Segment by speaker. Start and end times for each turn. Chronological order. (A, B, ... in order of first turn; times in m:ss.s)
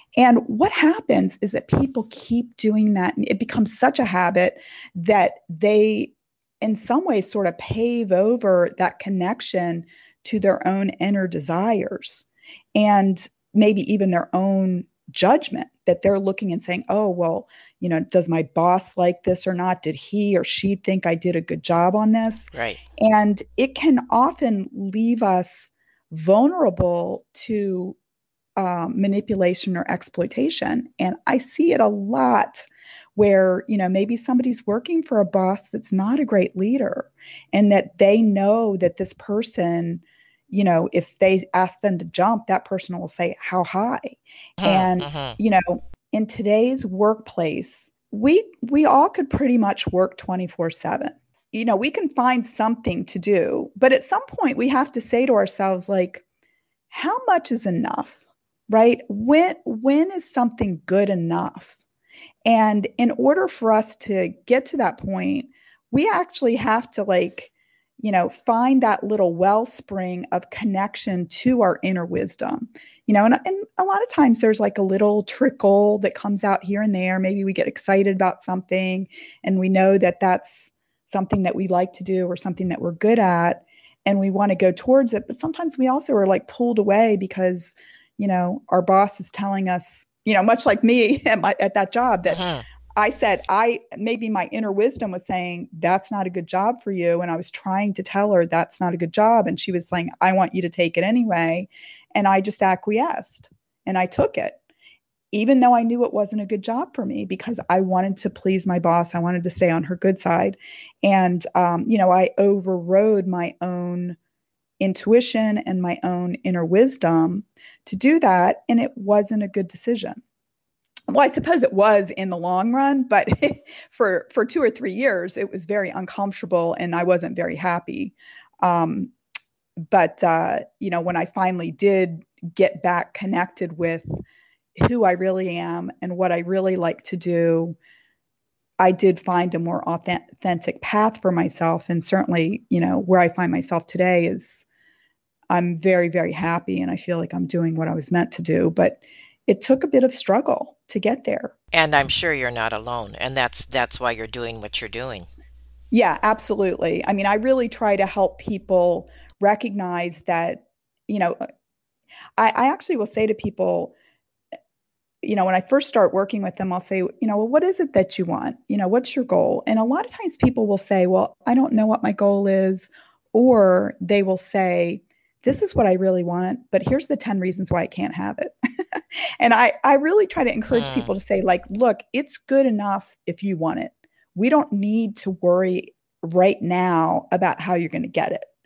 0:00.2-0:28.0 A
0:22.5-0:22.8 B
0:28.6-0:56.2 A
0:44.6-0:45.4 B
0:56.9-0:58.2 A
0:58.7-1:01.7 A
1:02.4-1:32.4 A
1:32.2-1:32.6 B
1:33.0-1:44.6 A
1:45.3-1:54.2 A
1:54.8-2:00.2 A
2:01.1-2:09.1 A
2:09.9-2:14.2 A
2:14.8-2:17.8 A
2:18.8-2:24.6 A
2:25.5-2:31.5 A
2:31.7-2:35.3 B
2:35.9-2:41.4 A
2:42.4-2:43.9 A
2:45.2-3:08.4 A
3:00.7-3:01.1 B